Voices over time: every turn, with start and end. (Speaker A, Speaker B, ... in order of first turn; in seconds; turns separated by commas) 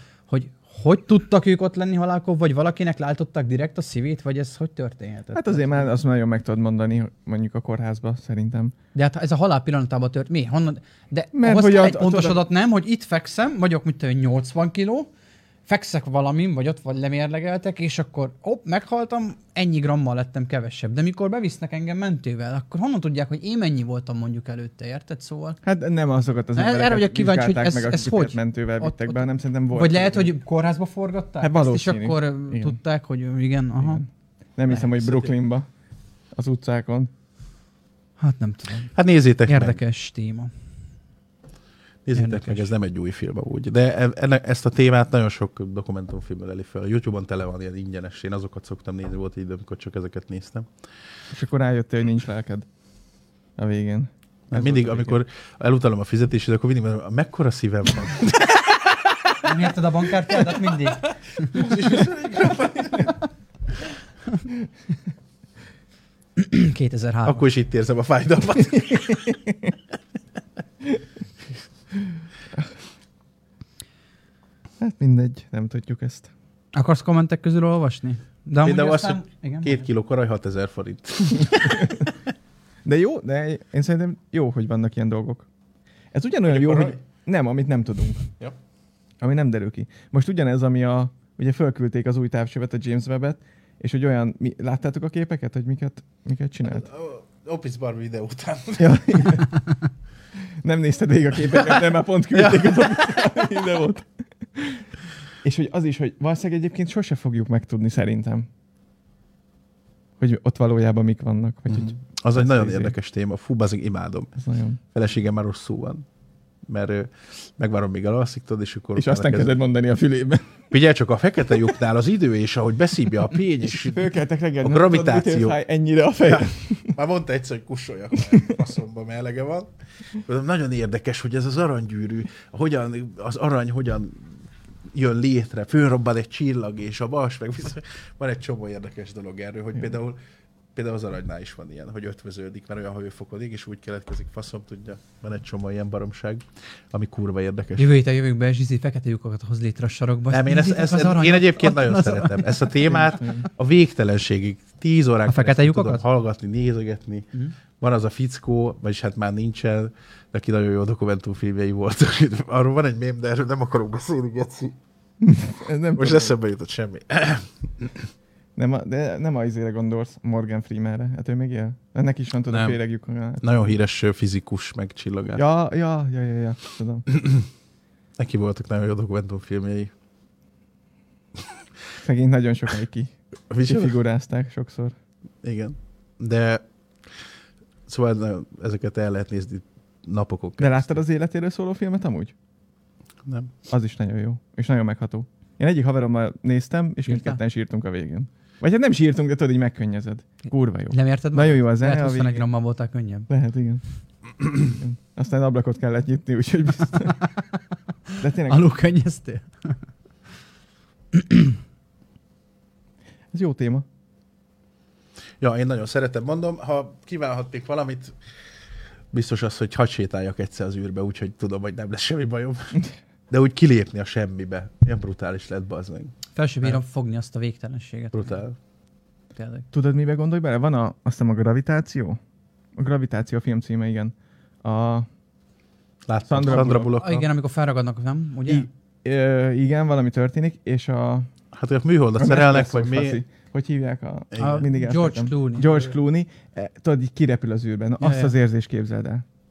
Speaker A: 0.3-5.9, Speaker B: 5.3-8.7, Speaker A: 8.9-15.1, Speaker B: 11.3-12.4, Speaker A: 15.7-25.6, Speaker B: 25.6-30.3, Speaker A: 26.6-34.0, Speaker B: 31.4-32.8, Speaker B: 33.8-35.7, Speaker C: 35.0-35.3, Speaker B: 36.3-37.1, Speaker A: 38.2-38.9, Speaker C: 38.9-39.8, Speaker A: 39.5-40.5, Speaker C: 42.0-50.7, Speaker A: 42.1-42.7, Speaker B: 51.3-52.7, Speaker B: 53.6-55.2, Speaker C: 54.5-59.3, Speaker A: 59.4-61.7, Speaker C: 61.5-63.1, Speaker A: 66.4-67.4, Speaker C: 67.2-69.3, Speaker B: 69.5-69.7, Speaker B: 74.8-76.3, Speaker A: 76.7-79.8, Speaker C: 78.6-82.0, Speaker B: 82.8-85.5, Speaker B: 86.1-88.3, Speaker C: 86.5-87.0, Speaker B: 89.2-96.8, Speaker C: 96.6-99.4, Speaker B: 98.8-99.6, Speaker B: 100.6-104.8, Speaker C: 101.5-103.2, Speaker B: 105.4-108.5, Speaker B: 110.2-112.9, Speaker C: 111.7-114.3, Speaker B: 114.4-114.8, Speaker C: 114.9-116.0, Speaker C: 116.7-119.5, Speaker B: 119.0-120.7, Speaker C: 120.7-124.1, Speaker B: 123.8-127.0, Speaker C: 124.6-125.6, Speaker C: 126.2-129.7, Speaker B: 128.3-128.6, Speaker C: 130.2-140.2, Speaker C: 140.7-147.9, Speaker A: 147.8-152.9, Speaker C: 150.3-164.8, Speaker B: 152.9-153.5, Speaker A: 155.3-156.0, Speaker B: 165.2-166.3, Speaker C: 165.9-168.1, Speaker B: 168.6-173.7, Speaker C: 172.5-172.8, Speaker C: 173.4-175.4, Speaker B: 175.3-177.1, Speaker C: 177.1-177.5, Speaker C: 178.2-179.9, Speaker B: 182.0-184.9, Speaker C: 183.5-184.0, Speaker C: 185.4-186.6, Speaker C: 187.9-190.9, Speaker B: 190.6-192.3, Speaker C: 193.2-193.5, Speaker B: 193.7-202.5, Speaker A: 197.0-197.4, Speaker A: 200.9-203.3, Speaker B: 203.3-203.8, Speaker B: 204.4-207.2, Speaker A: 208.1-209.8, Speaker B: 208.2-208.7, Speaker A: 211.1-211.6, Speaker B: 213.3-213.8, Speaker C: 215.4-218.2, Speaker C: 219.1-222.8, Speaker C: 223.3-226.8, Speaker A: 226.3-228.4, Speaker C: 228.1-228.6, Speaker A: 229.3-229.7, Speaker B: 229.7-232.2, Speaker B: 232.8-234.1, Speaker B: 234.6-235.1, Speaker C: 236.1-237.2, Speaker B: 236.3-237.0, Speaker A: 236.5-238.7, Speaker B: 238.5-241.3, Speaker C: 241.5-243.2, Speaker B: 242.2-249.2, Speaker C: 244.3-244.6, Speaker A: 244.4-245.9, Speaker A: 248.0-248.3